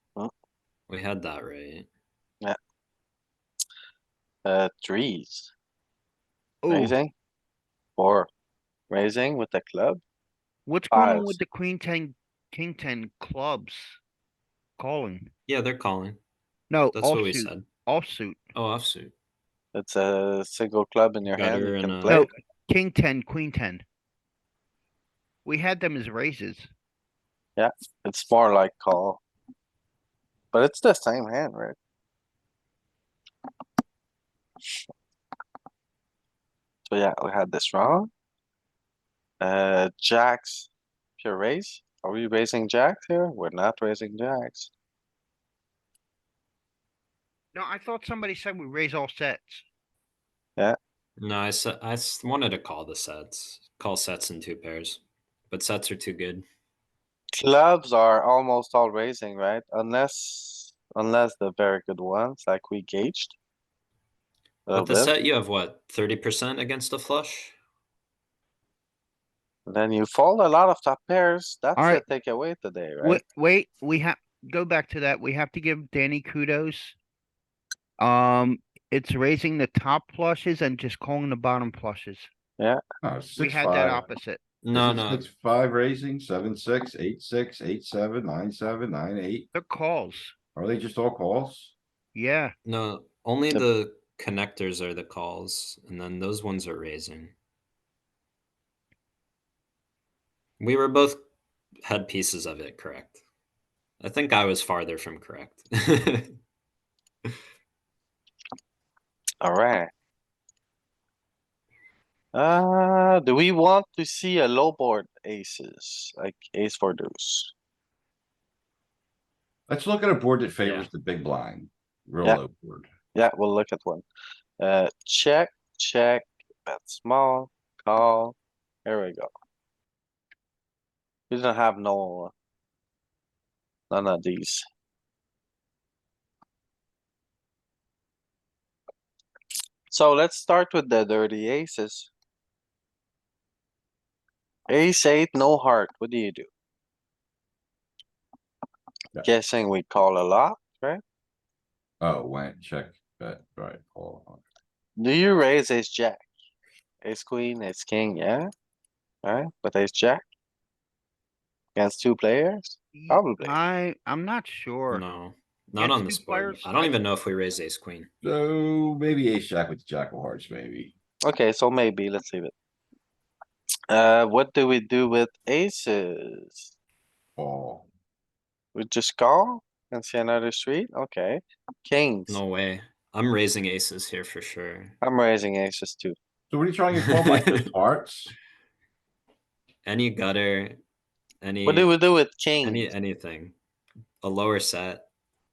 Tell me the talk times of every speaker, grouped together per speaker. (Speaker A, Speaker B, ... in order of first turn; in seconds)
Speaker A: 0.9-1.9, 15.5-16.2, 16.9-17.6, 18.5-19.1, 21.2-22.2, 51.2-56.5, 64.7-67.5, 84.6-85.3, 92.6-97.3, 100.6-101.2, 101.8-103.2, 104.0-106.3, 120.6-120.9, 164.9-168.1, 182.3-184.9, 187.0-187.3, 189.8-190.8, 191.4-191.9, 192.6-193.5, 194.2-195.1
Speaker B: 4.4-5.5, 6.7-7.1, 8.0-8.3, 8.9-10.0, 10.9-11.4, 19.7-22.3, 27.6-29.2, 30.5-31.8, 36.9-38.1, 39.4-44.7, 57.3-63.4, 64.7-65.1, 69.7-73.2, 109.4-109.9, 112.3-117.5, 123.1-124.0, 124.6-128.3, 128.8-129.3, 131.3-132.3, 133.9-134.6, 139.9-142.1, 144.7-146.5, 149.2-151.0, 155.0-156.3, 157.0-158.5, 159.2-160.2, 161.8-163.6, 171.2-172.5, 173.9-176.7, 178.7-182.4, 185.0-186.2, 191.6-192.8
Speaker C: 6.6-7.0, 10.7-14.0, 14.8-15.3, 16.7-18.4, 22.1-23.8, 25.4-26.7, 47.5-49.6, 71.8-72.0, 73.0-77.0, 78.0-82.3, 83.4-84.4, 89.5-90.3, 92.1-92.5, 162.9-165.0, 165.8-166.9
Speaker D: 83.0-84.1, 84.7-89.5, 90.5-91.7, 119.7-122.9, 152.0-154.4, 168.2-170.9, 177.4-177.9, 186.5-188.3